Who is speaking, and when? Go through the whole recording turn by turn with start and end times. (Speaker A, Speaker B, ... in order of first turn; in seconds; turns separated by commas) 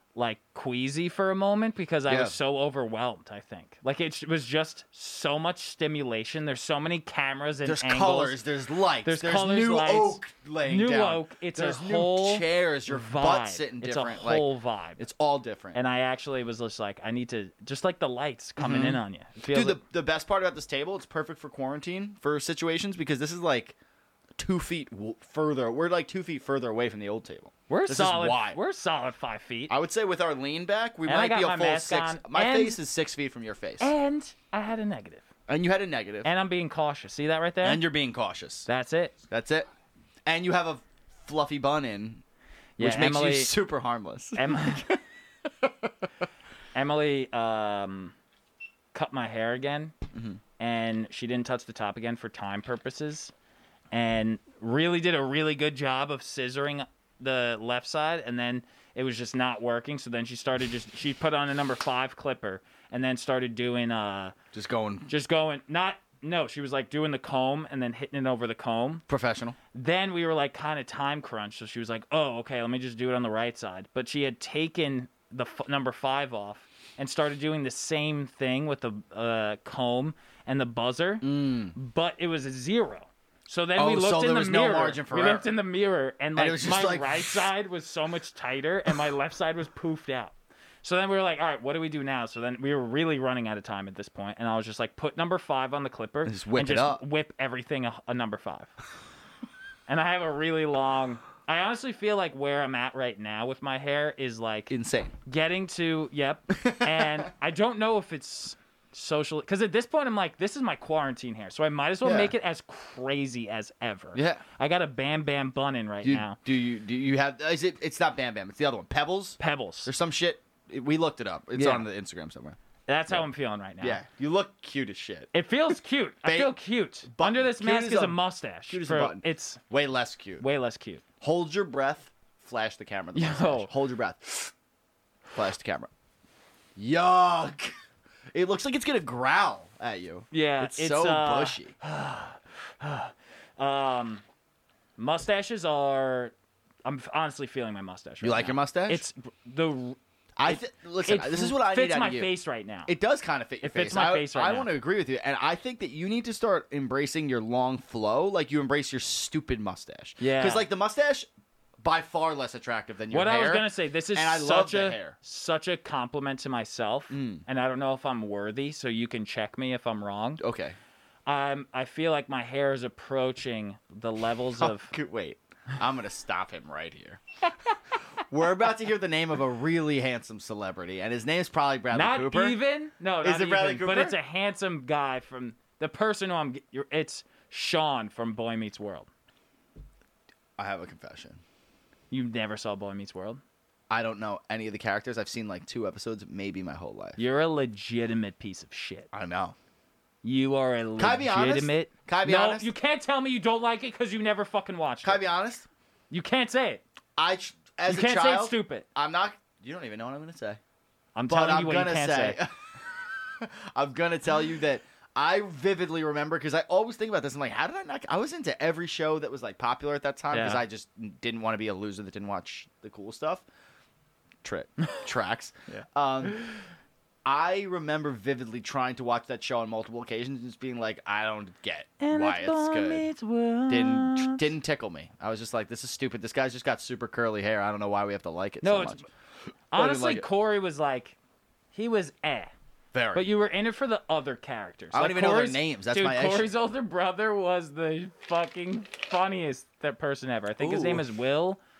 Speaker A: 0.1-8.4, Speaker B: 2.1-2.4, Speaker B: 7.7-15.8, Speaker A: 9.0-15.0, Speaker A: 15.8-19.8, Speaker B: 18.6-23.8, Speaker B: 24.4-28.6, Speaker A: 27.7-29.7, Speaker B: 29.7-33.9, Speaker A: 31.1-32.8, Speaker A: 33.8-35.3, Speaker B: 35.5-36.3, Speaker A: 36.2-37.8, Speaker B: 37.6-38.7, Speaker A: 38.7-39.1, Speaker B: 39.3-39.7, Speaker B: 40.3-42.2, Speaker A: 42.8-43.5, Speaker B: 42.8-45.9, Speaker A: 44.4-44.9, Speaker A: 46.8-48.1, Speaker A: 48.9-49.9, Speaker B: 50.1-50.4, Speaker A: 50.6-53.3, Speaker A: 53.9-64.3, Speaker B: 64.5-65.1, Speaker A: 65.1-69.0, Speaker B: 69.1-69.6, Speaker A: 69.7-98.7, Speaker B: 81.2-81.8, Speaker B: 83.8-85.5, Speaker B: 86.4-87.5, Speaker B: 96.2-97.0, Speaker A: 99.9-104.7, Speaker B: 104.7-105.1, Speaker A: 105.3-116.4, Speaker B: 106.5-107.3, Speaker B: 112.0-112.3, Speaker B: 114.1-114.4, Speaker B: 116.0-122.6, Speaker A: 119.4-119.9, Speaker A: 121.5-121.9, Speaker A: 122.9-124.0, Speaker B: 123.8-125.3, Speaker A: 125.3-129.6, Speaker B: 126.2-130.4, Speaker A: 130.4-131.0, Speaker B: 131.2-134.5, Speaker A: 133.1-133.7, Speaker B: 135.3-135.9, Speaker B: 136.8-137.7, Speaker B: 138.3-141.8, Speaker A: 140.3-144.2, Speaker A: 145.0-146.3, Speaker A: 146.8-152.9, Speaker B: 148.2-149.1, Speaker B: 150.4-152.3, Speaker B: 152.9-161.3, Speaker A: 153.6-154.7, Speaker A: 160.2-160.7, Speaker B: 161.8-165.2, Speaker A: 163.1-170.4, Speaker B: 167.1-167.4, Speaker B: 170.4-170.8, Speaker A: 171.3-174.9, Speaker B: 174.6-182.6, Speaker A: 181.9-189.1, Speaker B: 183.2-184.2, Speaker B: 190.6-191.4, Speaker A: 192.1-193.4, Speaker B: 193.9-197.2, Speaker A: 197.2-199.1, Speaker B: 199.1-199.6, Speaker A: 200.2-205.2, Speaker B: 201.0-202.7, Speaker B: 205.0-205.7, Speaker A: 206.1-206.8, Speaker B: 207.2-210.6, Speaker A: 207.9-208.8, Speaker A: 211.2-212.4, Speaker B: 211.3-223.4, Speaker A: 220.3-220.6, Speaker B: 224.4-226.4, Speaker B: 227.2-233.1, Speaker A: 232.0-234.5, Speaker B: 233.7-239.1, Speaker A: 238.6-239.0, Speaker A: 239.7-241.2, Speaker B: 239.7-240.3, Speaker A: 241.7-242.5, Speaker B: 242.9-243.3, Speaker A: 243.1-251.6, Speaker B: 244.9-246.5, Speaker B: 250.6-251.1